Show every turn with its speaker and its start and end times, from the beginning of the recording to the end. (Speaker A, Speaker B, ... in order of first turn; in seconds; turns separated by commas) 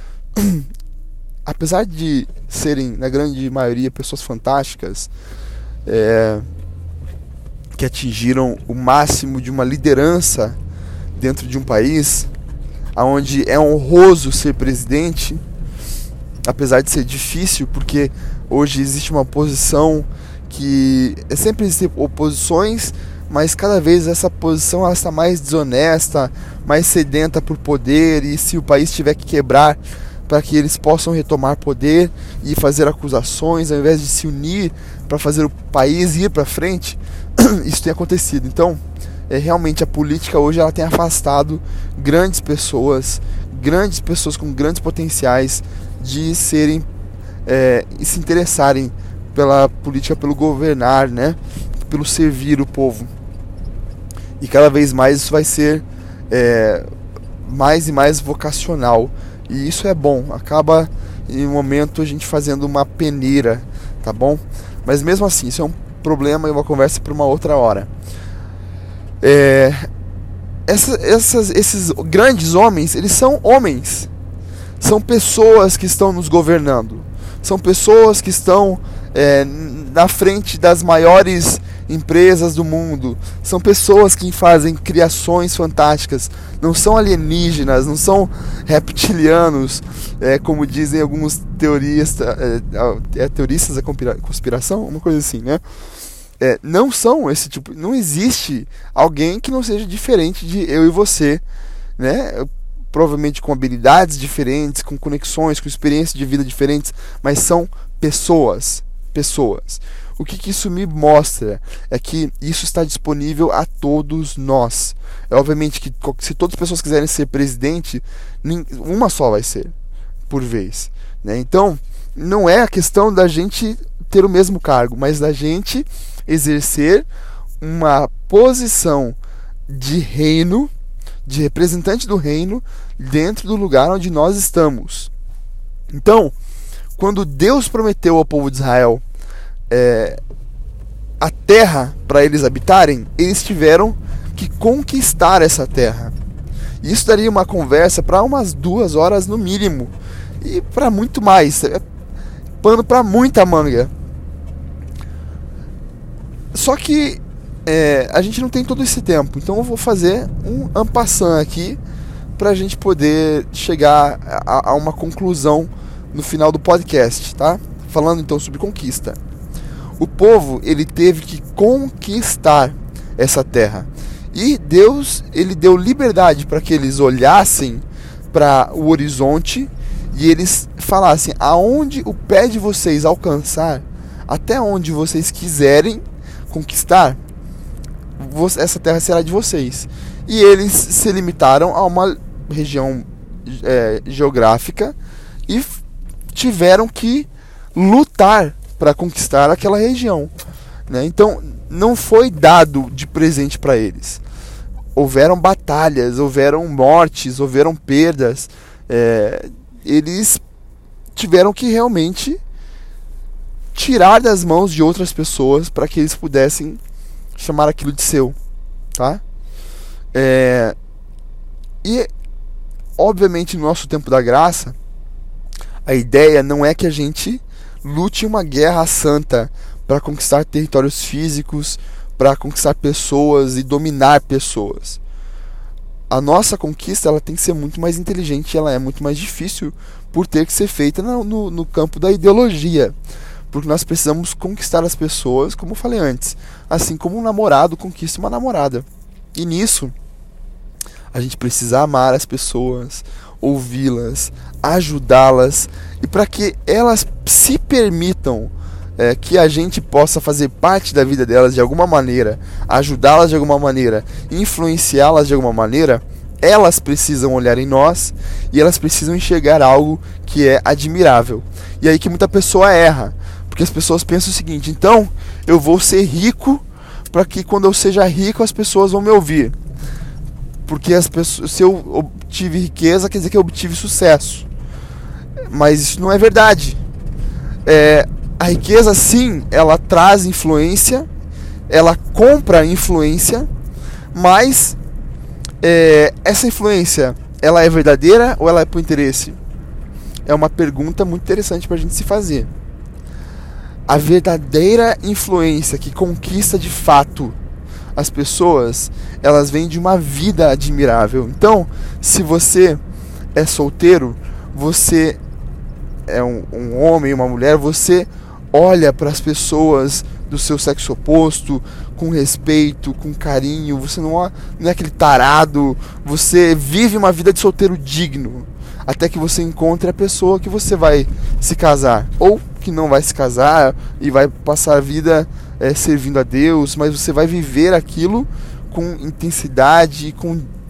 Speaker A: 0.4-0.7, Speaker A: 1.4-5.1, Speaker A: 5.9-6.5, Speaker A: 7.8-10.6, Speaker A: 11.2-12.3, Speaker A: 13.0-15.4, Speaker A: 16.4-46.9, Speaker A: 47.5-53.1, Speaker A: 54.4-56.9, Speaker A: 57.4-67.9, Speaker A: 69.2-69.8, Speaker A: 70.7-74.1, Speaker A: 74.8-95.6, Speaker A: 96.4-101.4, Speaker A: 102.0-119.7, Speaker A: 120.3-127.1, Speaker A: 127.6-130.7, Speaker A: 131.3-135.1, Speaker A: 135.9-136.3, Speaker A: 137.0-139.0, Speaker A: 139.7-140.2, Speaker A: 141.2-146.1, Speaker A: 146.8-151.8, Speaker A: 152.6-153.9, Speaker A: 156.5-161.8, Speaker A: 162.4-169.2, Speaker A: 170.0-187.2, Speaker A: 188.2-195.0, Speaker A: 195.5-195.8, Speaker A: 196.3-200.3, Speaker A: 200.9-204.2, Speaker A: 205.0-210.4, Speaker A: 211.2-212.4, Speaker A: 213.8-216.8, Speaker A: 217.4-218.4, Speaker A: 218.9-219.2, Speaker A: 220.1-220.8, Speaker A: 221.8-222.1, Speaker A: 223.0-224.8, Speaker A: 225.9-235.0, Speaker A: 236.1-242.9, Speaker A: 243.5-249.9, Speaker A: 251.1-279.6, Speaker A: 280.7-284.5, Speaker A: 285.5-286.8, Speaker A: 287.7-291.1, Speaker A: 291.7-293.5, Speaker A: 294.1-294.8, Speaker A: 295.6-299.4, Speaker A: 300.3-302.5, Speaker A: 303.9-307.4, Speaker A: 308.0-312.8, Speaker A: 313.4-315.2, Speaker A: 316.1-340.5